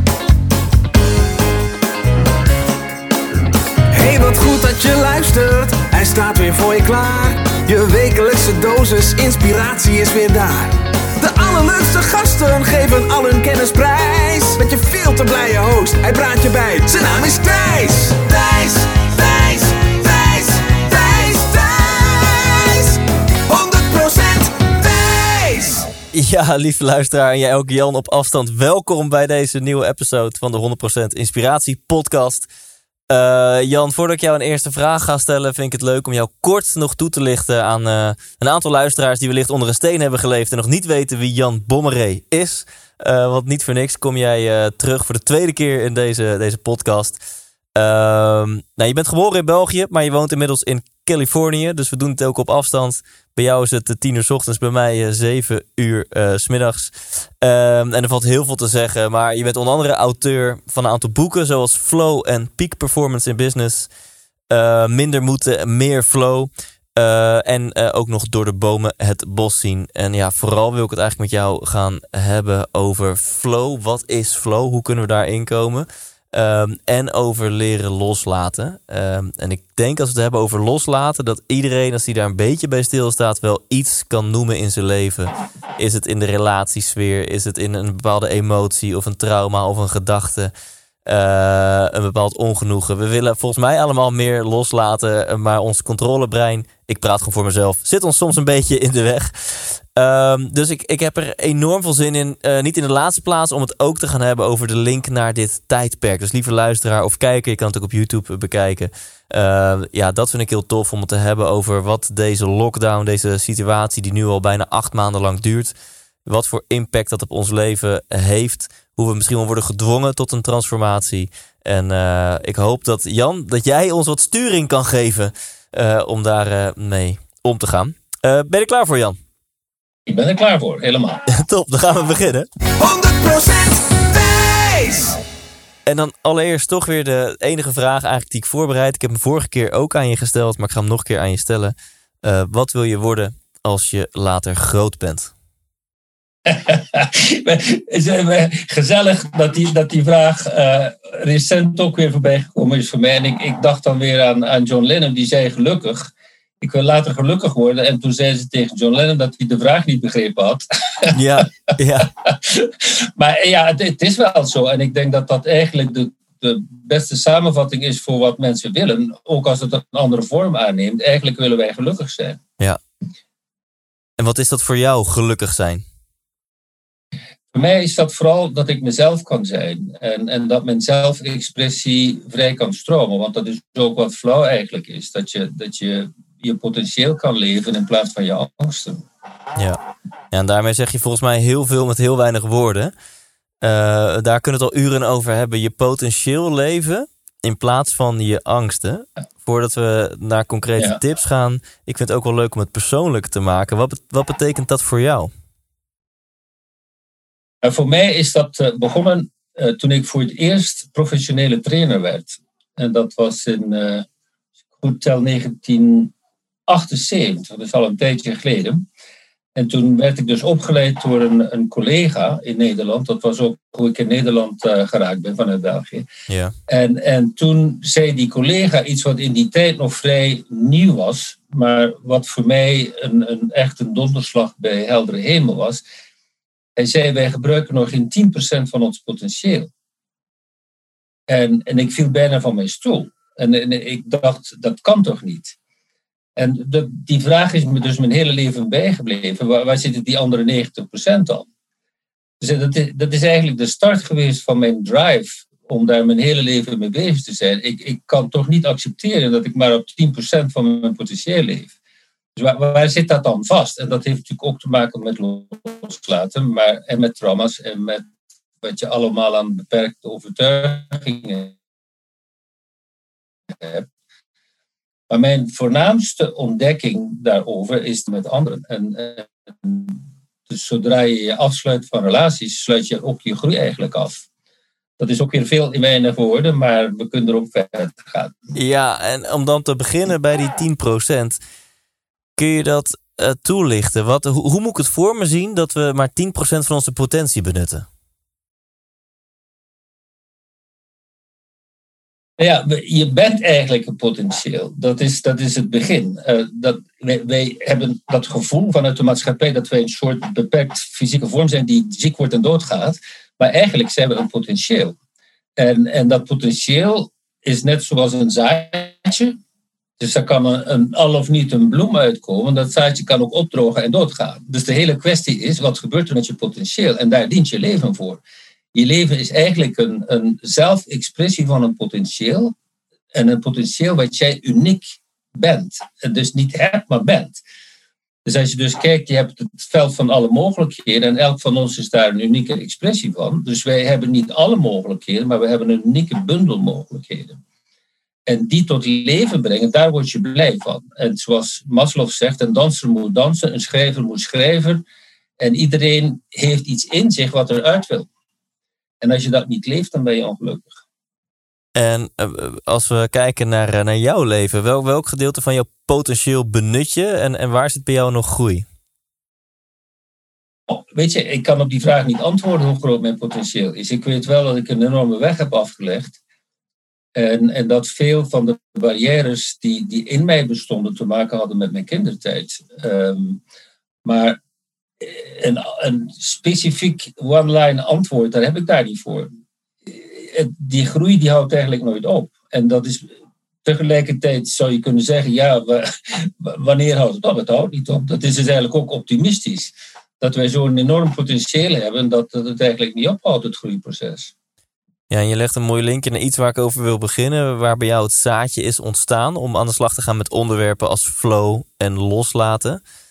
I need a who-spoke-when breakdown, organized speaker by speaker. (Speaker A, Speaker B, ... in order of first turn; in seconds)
Speaker A: 3.9-25.9, 132.8-135.2
Speaker B: 26.1-32.5, 33.1-47.2, 47.8-63.9, 64.5-90.5, 91.1-129.2, 131.3-132.5, 135.9-145.3, 161.1-162.1, 174.2-175.8, 190.3-192.9, 193.6-205.3, 226.3-226.6, 288.5-291.4, 292.4-297.9, 361.8-368.7, 405.1-412.8
Speaker C: 130.1-131.2, 146.5-156.1, 156.6-161.1, 162.2-172.4, 177.5-189.1, 207.6-214.1, 214.8-216.1, 216.7-218.8, 219.6-226.1, 226.7-235.8, 236.8-239.7, 241.3-245.6, 246.4-251.5, 252.4-261.7, 262.4-268.1, 268.6-271.6, 273.6-273.9, 275.1-284.2, 285.0-288.5, 302.4-315.0, 315.6-319.4, 320.0-328.2, 328.7-332.5, 333.1-337.4, 338.2-347.4, 348.3-354.8, 355.4-358.1, 359.0-360.8, 370.7-376.2, 377.2-383.4, 384.0-384.4, 385.0-389.3, 389.9-393.1, 393.6-404.3